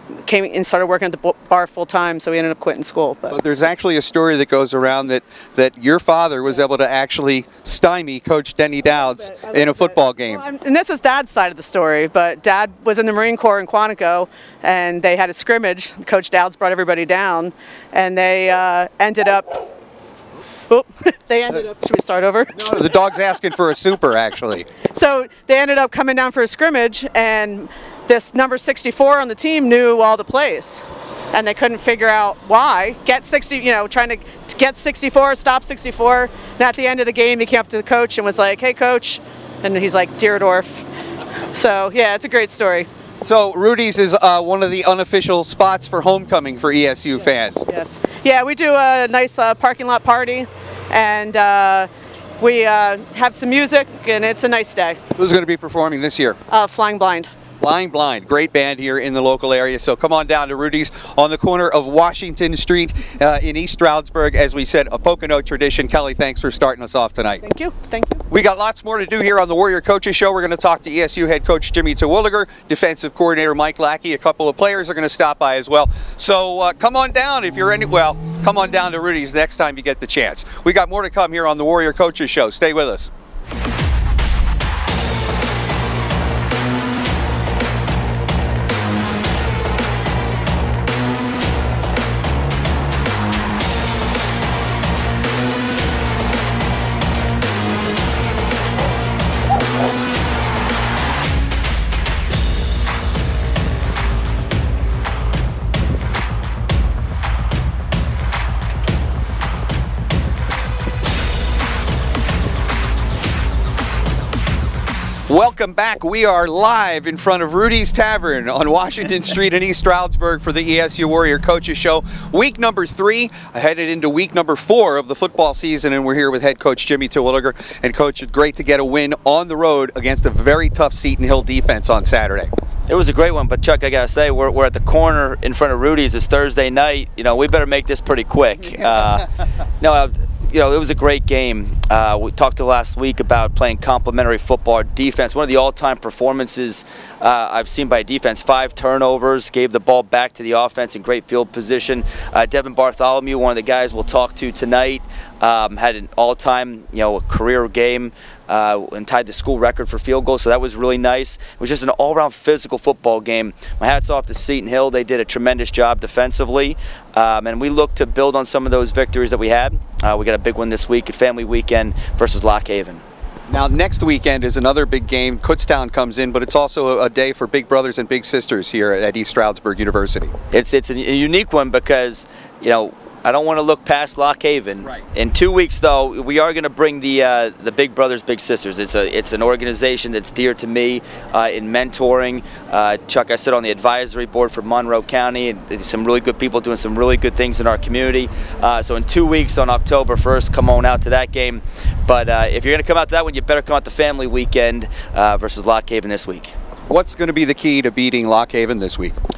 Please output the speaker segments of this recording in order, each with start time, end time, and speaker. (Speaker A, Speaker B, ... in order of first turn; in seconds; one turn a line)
Speaker A: 0.2-3.4
Speaker B: 3.3-10.4
Speaker A: 9.0-19.7
Speaker A: 20.7-22.6
Speaker B: 22.6-24.8
Speaker A: 24.9-40.9
Speaker A: 41.5-42.9
Speaker B: 43.2-47.6
Speaker A: 47.7-55.0
Speaker B: 55.2-56.4
Speaker A: 56.5-57.3
Speaker B: 57.6-67.4
Speaker A: 67.4-68.2
Speaker B: 68.3-83.1
Speaker B: 115.3-132.5
Speaker C: 132.9-139.3
Speaker C: 139.8-173.0
Speaker B: 173.5-180.3
Speaker C: 180.5-206.5
Speaker B: 206.9-209.2